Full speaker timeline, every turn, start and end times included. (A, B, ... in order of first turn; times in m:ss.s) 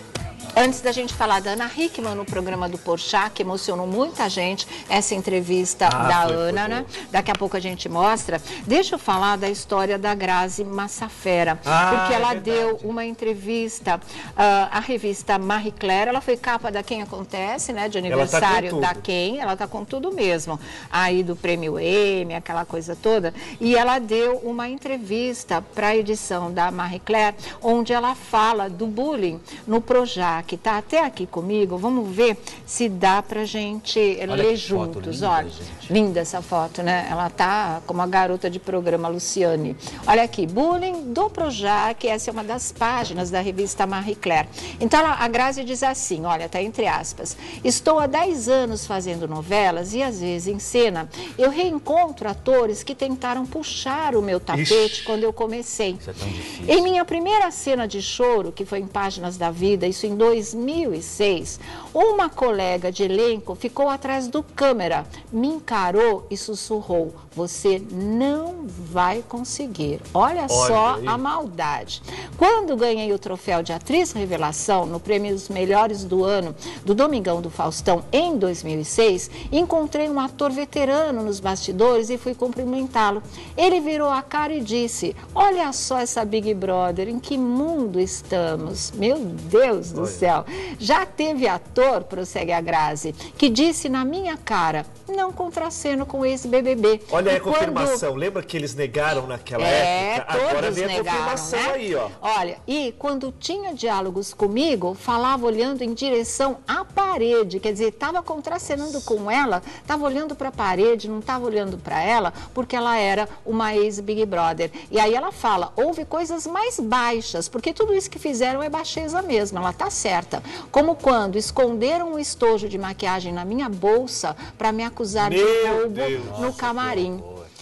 0:00.5-0:56.0 A
0:05.9-0:06.9 B
0:11.7-0:12.9 B
0:18.1-0:19.0 B
0:34.3-0:35.9 C
0:54.5-0:55.1 B
0:56.0-0:56.9 C
0:56.6-1:38.0 A
1:10.5-1:11.2 B
1:29.9-1:30.2 B
1:37.1-1:42.2 B
1:39.6-2:07.2 A
2:05.2-2:06.8 B
2:06.2-2:07.5 C